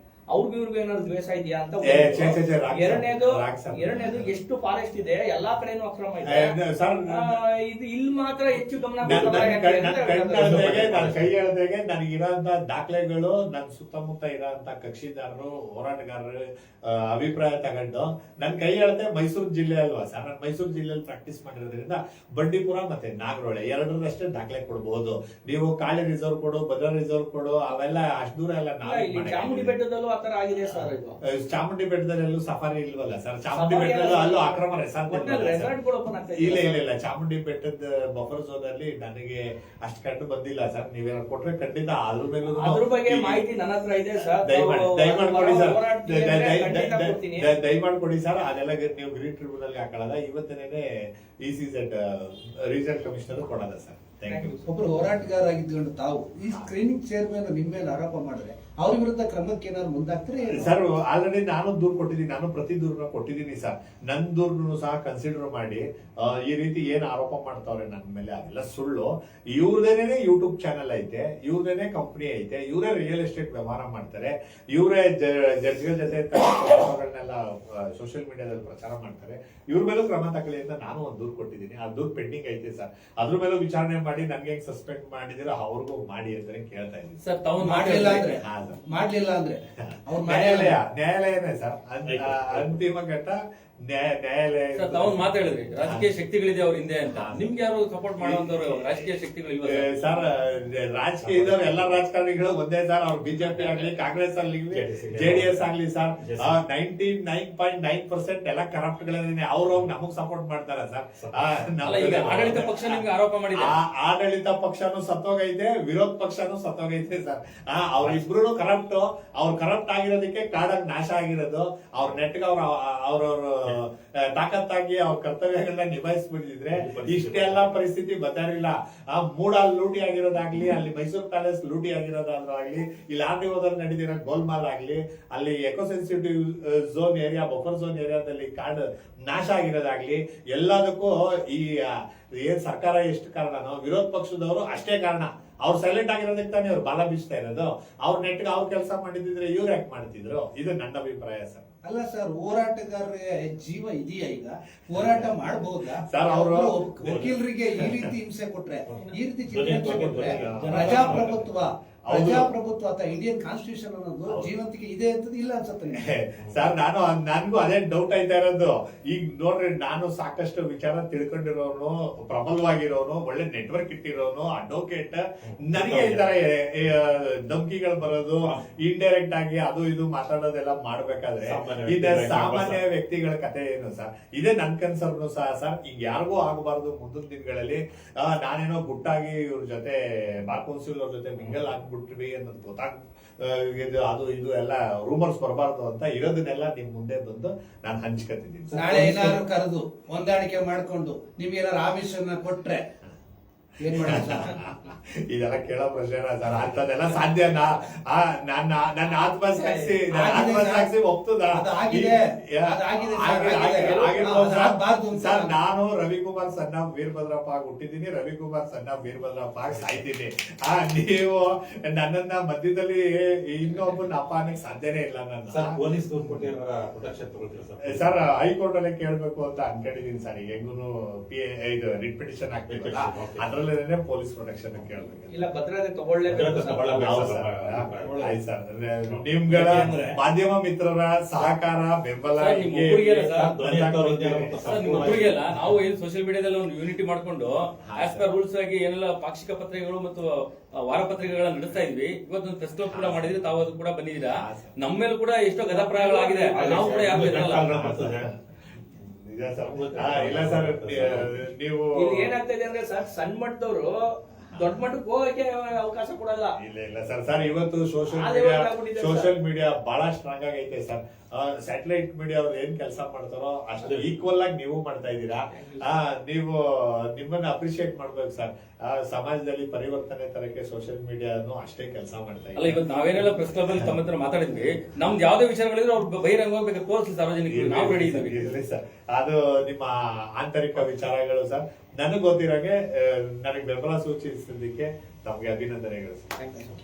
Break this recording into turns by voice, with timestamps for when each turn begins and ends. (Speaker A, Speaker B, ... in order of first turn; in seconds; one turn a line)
Speaker A: 0.3-6.5
Speaker B: 1.8-4.3
Speaker B: 6.2-7.4
Speaker A: 7.1-10.9
Speaker B: 9.0-29.8
Speaker C: 9.1-9.5
Speaker C: 10.4-11.3
Speaker A: 28.8-31.1
Speaker B: 30.7-35.7
Speaker A: 33.5-36.8
Speaker B: 36.3-43.4
Speaker A: 42.5-47.5
Speaker B: 44.2-50.8
Speaker B: 51.4-54.5
Speaker A: 54.2-54.6
Speaker D: 54.6-60.7
Speaker B: 60.4-87.2
Speaker E: 87.2-88.4
Speaker D: 87.6-90.8
Speaker B: 88.1-88.8
Speaker B: 89.8-96.1
Speaker C: 92.0-92.8
Speaker E: 94.8-99.9
Speaker B: 97.0-97.5
Speaker B: 98.2-99.0
Speaker B: 99.6-113.0
Speaker C: 101.2-102.0
Speaker E: 103.5-103.9
Speaker C: 104.7-106.6
Speaker C: 111.2-111.6
Speaker E: 111.8-113.7
Speaker B: 113.5-151.6
Speaker C: 126.7-127.8
Speaker D: 151.8-166.0
Speaker B: 154.9-155.3
Speaker B: 156.1-156.7
Speaker C: 157.0-157.4
Speaker C: 158.9-161.4
Speaker B: 160.3-161.5
Speaker B: 162.0-162.5
Speaker B: 165.9-199.1
Speaker C: 166.4-166.7
Speaker C: 175.4-176.2
Speaker C: 181.4-182.8
Speaker C: 198.7-199.4
Speaker D: 198.7-202.9
Speaker D: 203.8-204.6
Speaker B: 204.0-225.8
Speaker A: 209.5-210.0
Speaker D: 210.1-210.9
Speaker D: 211.5-215.6
Speaker A: 213.8-214.1
Speaker C: 219.7-220.0
Speaker C: 225.5-228.3
Speaker B: 227.8-235.4
Speaker C: 232.7-233.5
Speaker A: 235.3-237.2
Speaker C: 236.3-238.4
Speaker B: 236.7-245.2
Speaker C: 239.1-240.2
Speaker E: 242.3-243.6
Speaker C: 243.3-245.6
Speaker E: 244.6-257.8
Speaker B: 247.8-248.3
Speaker B: 252.9-253.4
Speaker B: 254.2-254.7
Speaker A: 255.6-257.1
Speaker C: 256.5-258.3
Speaker B: 257.6-258.3
Speaker B: 259.0-262.4
Speaker C: 259.6-261.4
Speaker A: 261.9-263.9
Speaker A: 264.6-266.5
Speaker B: 266.6-282.8
Speaker A: 268.1-269.3
Speaker C: 273.8-274.1
Speaker A: 275.5-275.9
Speaker E: 282.6-288.4
Speaker B: 287.5-296.4